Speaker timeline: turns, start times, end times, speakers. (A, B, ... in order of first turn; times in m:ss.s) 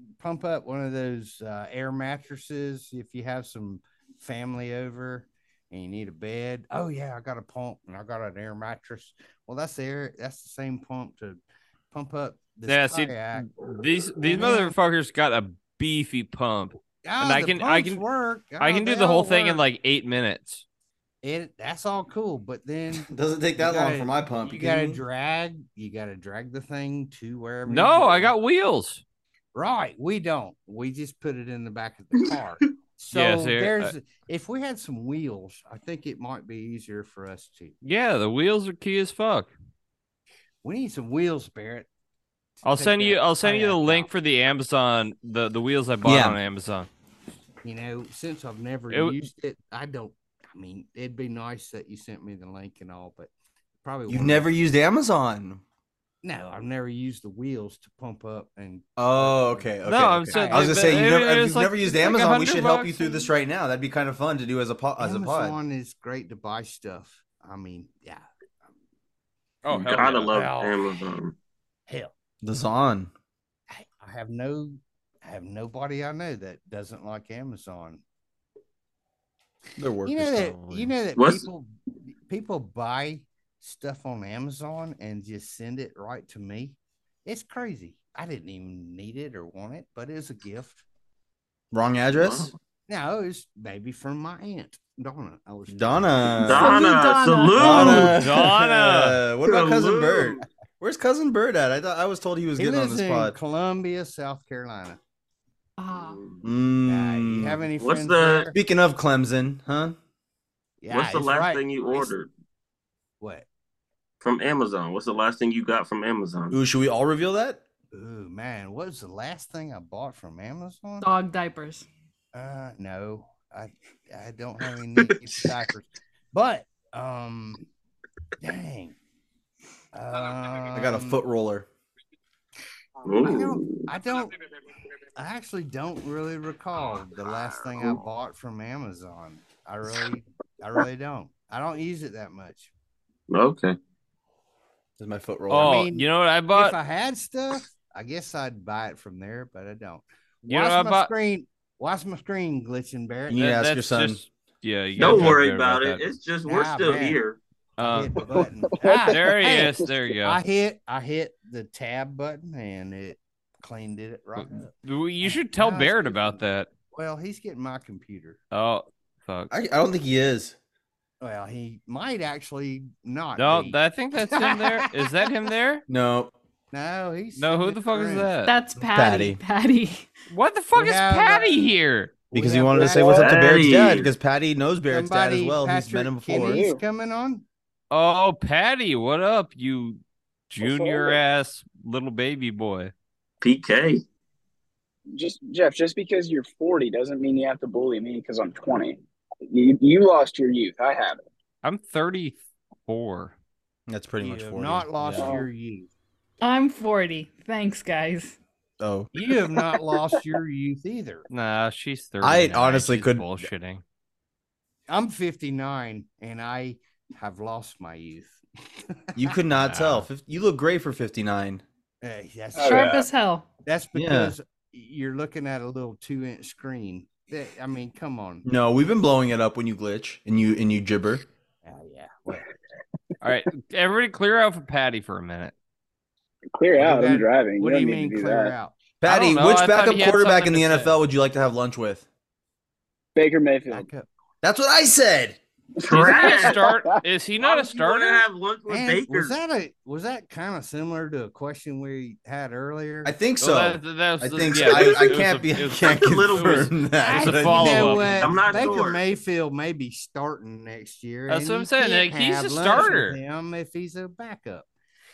0:00.2-0:11.4 A
0:11.9-0:13.5 A
0:12.7-0:18.0 B
0:14.2-0:14.8 A
0:17.0-0:19.6 A
0:18.6-0:20.6 B
0:21.2-0:28.3 A
0:22.9-0:25.0 C
0:27.7-0:29.0 B
0:29.6-0:37.8 A
0:33.1-0:33.9 B
0:37.8-0:39.5 B
0:40.6-0:41.9 A
0:42.6-0:44.1 A
0:42.6-0:46.9 B
0:46.0-0:46.4 C
0:47.6-0:53.3 A
0:48.9-0:49.3 B
0:53.8-0:54.5 A
0:54.1-0:55.6 C
0:56.2-0:59.7 A
0:59.0-1:05.6 C
0:59.8-1:03.3 B
1:00.3-1:01.0 A
1:05.0-1:08.2 A
1:09.6-1:10.3 B
1:09.7-1:11.3 D
1:10.3-1:11.0 A
1:11.9-1:12.1 A
1:12.4-1:13.1 C
1:13.7-1:18.0 A
1:19.8-1:20.9 C
1:20.0-1:21.7 A
1:21.2-1:21.5 D
1:22.3-1:30.8 A
1:31.7-1:32.5 C
1:32.1-1:32.5 D
1:32.9-1:36.4 A
1:35.7-1:36.8 C
1:36.4-1:38.2 D
1:36.5-1:38.1 E
1:37.5-1:43.4 C
1:38.1-1:39.2 B
1:39.5-1:40.4 D
1:42.6-1:45.0 A
1:45.8-1:46.2 E
1:45.9-1:46.4 D
1:46.4-1:47.7 C
1:46.9-1:48.5 A
1:47.8-1:48.5 D
1:48.6-1:50.0 C
1:50.8-1:52.1 A
1:50.9-1:52.3 D
1:53.2-1:53.5 A
1:54.2-1:56.6 D
1:56.5-1:57.6 C
1:57.9-2:01.1 A
2:01.0-2:01.9 E
2:02.3-2:07.7 A
2:08.4-2:09.0 A
2:09.9-2:11.2 A
2:10.7-2:11.7 C
2:13.0-2:13.9 D
2:13.2-2:14.4 A
2:15.2-2:22.7 A
2:23.3-2:23.8 D
2:25.0-2:25.8 C
2:25.5-2:33.4 A
2:25.5-2:26.8 B
2:30.5-2:31.1 B
2:33.3-2:34.2 C
2:33.4-2:36.0 B
2:35.0-2:37.4 D
2:35.0-2:35.3 C
2:36.4-2:37.2 A
2:37.8-2:38.2 B
2:37.8-2:48.4 A
2:38.3-2:40.0 F
2:39.1-2:40.4 B
2:44.4-2:46.7 B
2:48.5-2:49.5 B
2:49.5-2:50.6 C
2:51.2-2:55.3 A
2:53.4-2:55.8 B
2:55.9-2:56.3 C
2:56.7-2:58.3 A
2:57.4-2:58.5 B
2:58.4-3:00.1 E
2:58.9-2:59.4 C
3:00.3-3:02.2 B
3:00.7-3:01.6 A
3:02.3-3:03.4 A
3:02.3-3:06.6 C
3:02.8-3:03.2 F
3:03.1-3:04.1 D
3:04.9-3:07.4 A
3:06.4-3:06.8 F
3:07.9-3:12.9 B
3:10.6-3:11.2 F
3:13.4-3:14.0 D
3:15.2-3:21.2 F
3:21.6-3:23.4 B
3:23.9-3:25.3 C
3:24.2-3:25.9 A
3:25.2-3:25.5 F
3:26.4-3:28.4 E
3:28.8-3:29.1 C
3:29.1-3:31.3 A
3:31.3-3:33.8 B
3:32.2-3:33.3 C
3:34.9-3:38.4 A
3:39.0-3:39.3 A
3:39.2-3:41.6 C
3:39.6-3:40.1 B
3:42.0-3:43.0 A
3:42.6-3:43.1 F
3:42.6-3:43.5 E
3:43.6-3:48.4 A
3:44.0-3:44.3 C
3:48.4-3:51.2 C
3:51.6-3:52.5 A
3:53.2-3:55.5 B
3:56.5-3:58.6 F
3:56.8-3:58.7 A
3:59.0-4:02.1 C
3:59.0-4:00.9 B
4:03.2-4:03.9 F
4:03.7-4:04.1 A
4:04.4-4:05.4 C
4:05.8-4:07.0 F
4:05.8-4:06.6 D
4:05.9-4:08.2 B
4:07.4-4:09.4 D
4:08.7-4:13.1 A
4:13.0-4:18.2 C
4:13.4-4:18.4 B
4:14.5-4:15.3 D
4:15.8-4:16.8 D
4:17.0-4:24.7 A
4:18.2-4:19.0 D
4:21.3-4:23.2 B